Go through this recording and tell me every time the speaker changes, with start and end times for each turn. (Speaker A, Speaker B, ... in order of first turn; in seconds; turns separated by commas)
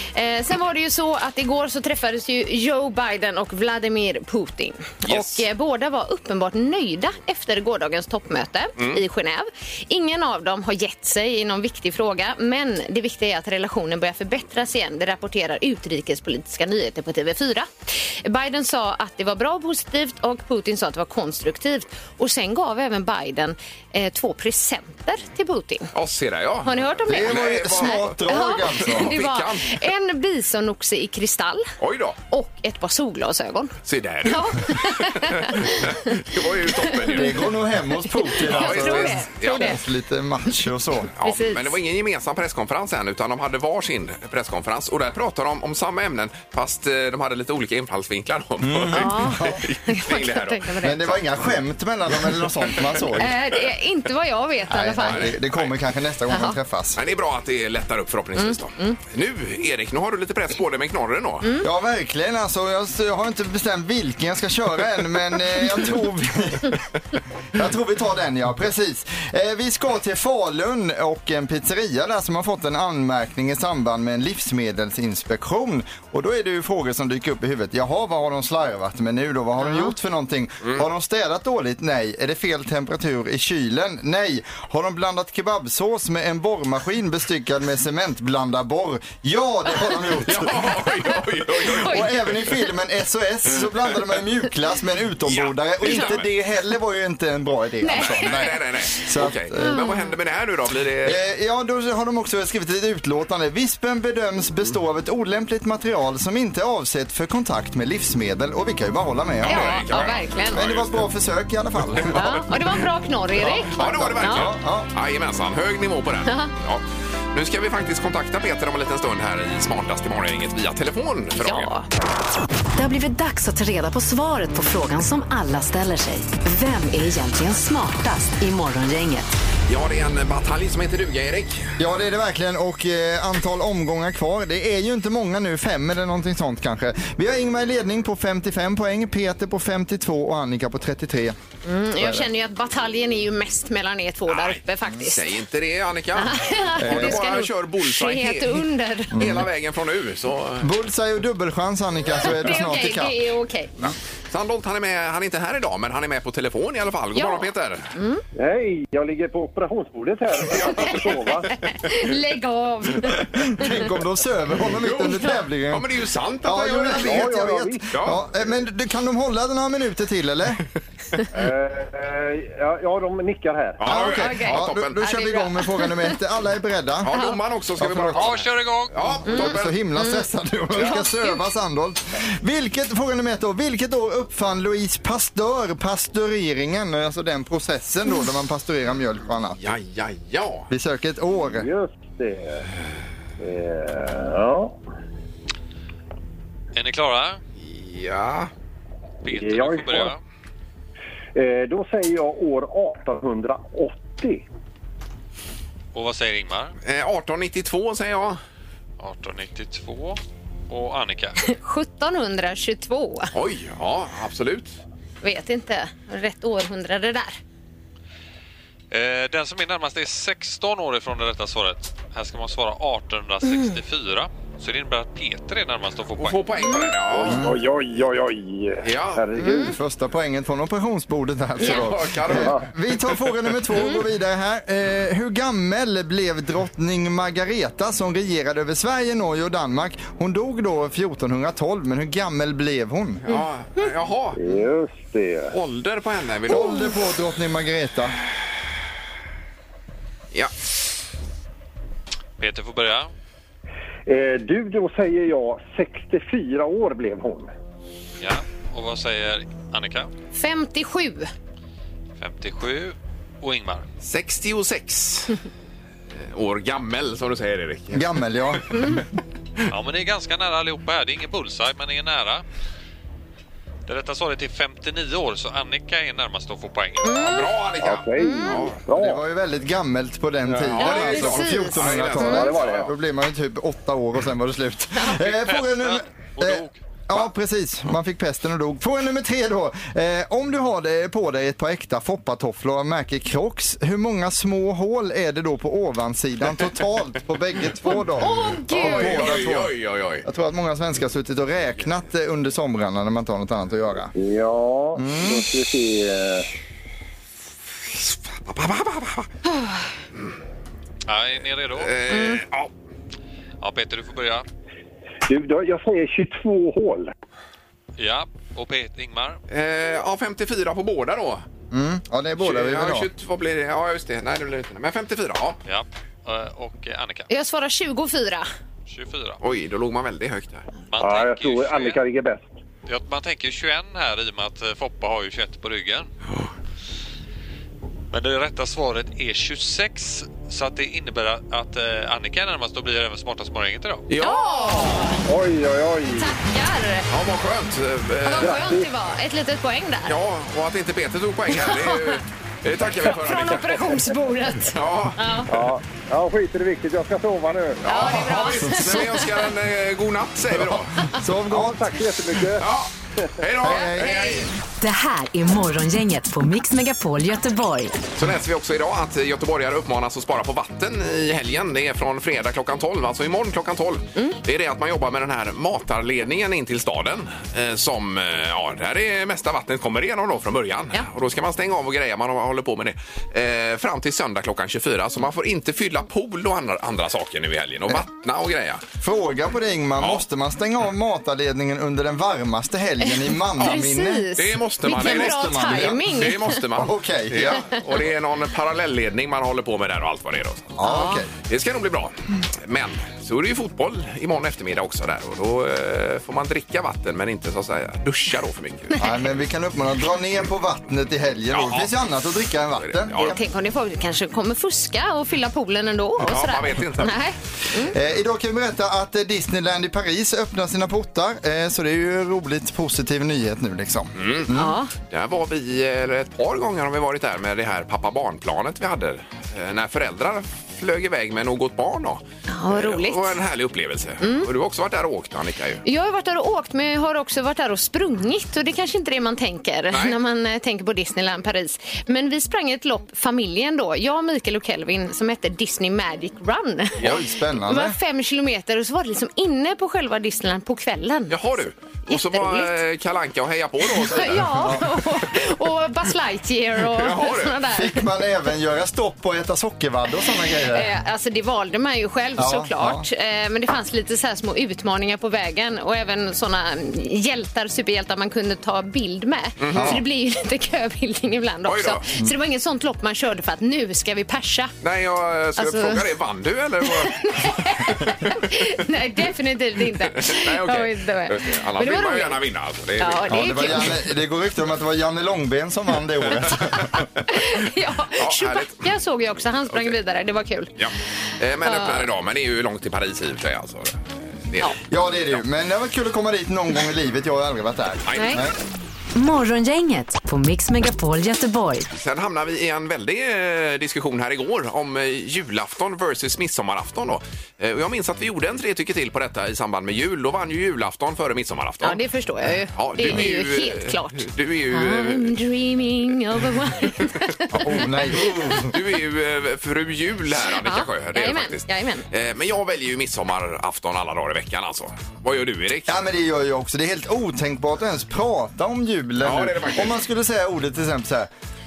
Speaker A: 0.1-25.9, Speaker B: 5.0-5.4, Speaker B: 25.9-29.7, Speaker A: 26.6-31.7, Speaker C: 27.1-29.1, Speaker B: 31.8-32.2, Speaker A: 32.3-36.0, Speaker B: 33.8-37.3, Speaker C: 37.1-41.1, Speaker A: 38.1-39.8, Speaker B: 38.4-39.8, Speaker B: 41.2-50.9, Speaker A: 41.2-41.7, Speaker C: 48.6-49.6, Speaker A: 48.9-51.1, Speaker C: 50.8-53.3, Speaker A: 53.2-55.3, Speaker C: 54.7-57.0, Speaker B: 55.0-55.7, Speaker A: 56.3-56.6, Speaker B: 57.0-61.5, Speaker A: 58.4-59.0, Speaker C: 61.6-66.8, Speaker C: 67.5-90.8, Speaker A: 79.6-79.9, Speaker B: 90.2-92.3, Speaker C: 91.6-99.8, Speaker A: 91.8-92.0, Speaker B: 95.2-96.3, Speaker A: 97.8-98.5, Speaker B: 97.9-101.2, Speaker A: 99.6-100.1, Speaker C: 101.0-112.4, Speaker B: 109.4-111.0, Speaker A: 109.4-110.6, Speaker B: 111.8-112.4, Speaker A: 112.1-114.5, Speaker C: 113.5-114.9, Speaker B: 113.6-121.7, Speaker A: 116.2-116.5, Speaker A: 121.4-121.8, Speaker D: 122.8-129.3, Speaker B: 129.7-131.7, Speaker C: 131.8-141.3, Speaker A: 141.6-145.3, Speaker C: 142.0-142.3, Speaker B: 144.3-150.7, Speaker A: 146.2-149.1, Speaker C: 146.8-147.2, Speaker C: 149.1-149.5, Speaker C: 150.6-153.2, Speaker A: 152.2-153.7, Speaker B: 153.8-157.9, Speaker A: 157.1-158.2, Speaker E: 158.4-161.5, Speaker B: 160.6-161.0, Speaker A: 160.7-160.9, Speaker A: 161.5-163.7, Speaker C: 163.3-165.8, Speaker B: 164.7-167.3, Speaker C: 166.4-170.6, Speaker E: 166.8-167.8, Speaker B: 167.9-168.2, Speaker E: 171.3-173.8, Speaker B: 173.8-175.0, Speaker C: 173.8-177.2, Speaker A: 173.9-176.1, Speaker B: 177.0-179.7, Speaker C: 177.8-178.3, Speaker F: 178.1-179.1, Speaker A: 179.3-181.4, Speaker C: 179.3-189.6, Speaker B: 189.6-190.7, Speaker C: 190.7-191.7, Speaker E: 191.4-192.7, Speaker E: 193.4-194.8, Speaker F: 196.7-197.4, Speaker B: 197.6-198.5, Speaker F: 199.2-200.2, Speaker E: 199.3-200.1, Speaker E: 201.3-204.4, Speaker F: 205.9-206.7, Speaker B: 206.8-208.4, Speaker F: 209.0-211.4, Speaker A: 211.4-213.3, Speaker B: 213.3-214.8, Speaker A: 215.2-217.4, Speaker F: 218.9-226.7, Speaker B: 226.2-227.4, Speaker A: 226.6-226.9, Speaker E: 227.1-229.8, Speaker C: 227.2-227.6, Speaker B: 228.8-229.3, Speaker C: 229.4-243.2, Speaker A: 229.4-229.7, Speaker B: 231.6-233.1, Speaker E: 232.3-232.6, Speaker B: 243.2-244.4, Speaker A: 243.3-243.9, Speaker E: 244.3-245.5, Speaker B: 245.5-246.9, Speaker C: 246.5-248.1, Speaker F: 252.4-253.1, Speaker E: 254.1-257.5, Speaker F: 258.2-260.1, Speaker A: 260.3-261.3, Speaker F: 262.2-263.8, Speaker B: 264.0-265.4, Speaker B: 266.2-269.0, Speaker C: 267.9-268.8, Speaker F: 269.7-272.4, Speaker F: 273.9-277.2, Speaker A: 277.0-277.5, Speaker B: 277.1-278.8, Speaker E: 277.8-279.2, Speaker A: 278.2-278.7, Speaker C: 278.9-304.1, Speaker B: 280.5-282.9, Speaker A: 280.8-282.5, Speaker E: 282.2-282.9, Speaker F: 285.1-286.8, Speaker A: 297.8-299.4, Speaker B: 298.7-300.2, Speaker E: 304.1-306.5, Speaker C: 304.9-305.4, Speaker B: 308.0-309.3, Speaker F: 311.1-312.0, Speaker B: 311.8-312.7, Speaker A: 312.1-312.4, Speaker F: 313.6-314.4, Speaker E: 315.3-317.1, Speaker F: 318.0-319.4, Speaker B: 319.5-321.4, Speaker C: 321.7-323.1, Speaker B: 322.4-325.6, Speaker F: 325.6-327.3, Speaker A: 327.3-328.5, Speaker F: 328.9-329.4, Speaker B: 329.4-330.6, Speaker F: 330.9-332.0, Speaker E: 331.0-332.5, Speaker F: 332.9-336.1, Speaker F: 338.1-344.1, Speaker B: 344.1-345.2, Speaker A: 344.2-345.2, Speaker E: 345.3-346.3, Speaker A: 346.1-347.1, Speaker B: 347.1-348.7, Speaker A: 348.2-350.1, Speaker E: 348.4-348.9, Speaker B: 350.1-353.9, Speaker A: 351.5-352.2, Speaker A: 353.0-355.5, Speaker B: 354.7-355.2, Speaker E: 355.5-357.8, Speaker B: 357.8-361.0, Speaker A: 357.9-359.3, Speaker C: 360.5-361.9, Speaker E: 361.4-362.6, Speaker B: 362.6-364.5, Speaker C: 363.6-364.2, Speaker A: 363.7-364.4, Speaker D: 364.8-368.0, Speaker B: 368.1-388.8, Speaker C: 389.0-394.3, Speaker A: 393.0-396.6, Speaker B: 394.4-400.7, Speaker C: 394.9-396.2, Speaker C: 396.7-397.6, Speaker C: 400.8-401.3, Speaker A: 400.8-401.2, Speaker B: 401.4-408.9, Speaker C: 409.0-413.3, Speaker B: 411.5-411.9, Speaker B: 412.8-413.4, Speaker A: 413.2-417.9, Speaker B: 416.2-417.1, Speaker C: 417.9-424.7, Speaker B: 424.1-435.8, Speaker A: 424.5-424.9, Speaker A: 432.5-433.3, Speaker A: 434.2-434.5, Speaker A: 435.8-447.0, Speaker B: 439.9-440.1, Speaker C: 447.0-448.0, Speaker A: 447.6-451.4, Speaker B: 451.3-454.8, Speaker A: 452.1-452.7, Speaker A: 453.9-458.0, Speaker C: 454.4-454.8, Speaker B: 456.9-457.6, Speaker C: 457.7-460.9, Speaker A: 460.7-474.7, Speaker C: 462.4-463.1, Speaker B: 469.6-470.0, Speaker C: 469.7-470.0, Speaker B: 471.6-472.0, Speaker B: 474.8-478.4, Speaker A: 475.6-476.0, Speaker A: 476.9-482.4, Speaker B: 480.1-483.8, Speaker A: 483.0-483.9, Speaker C: 483.3-486.9, Speaker A: 487.3-490.7, Speaker B: 488.2-488.8, Speaker B: 490.8-495.4, Speaker A: 491.6-492.0, Speaker C: 494.9-498.5, Speaker B: 498.1-498.4, Speaker A: 498.1-498.4, Speaker D: 499.1-501.9, Speaker B: 501.9-512.0, Speaker A: 511.8-517.8, Speaker B: 512.7-515.4, Speaker C: 517.6-518.7, Speaker B: 518.5-526.0, Speaker A: 520.6-522.0, Speaker C: 525.9-531.3, Speaker B: 529.2-530.0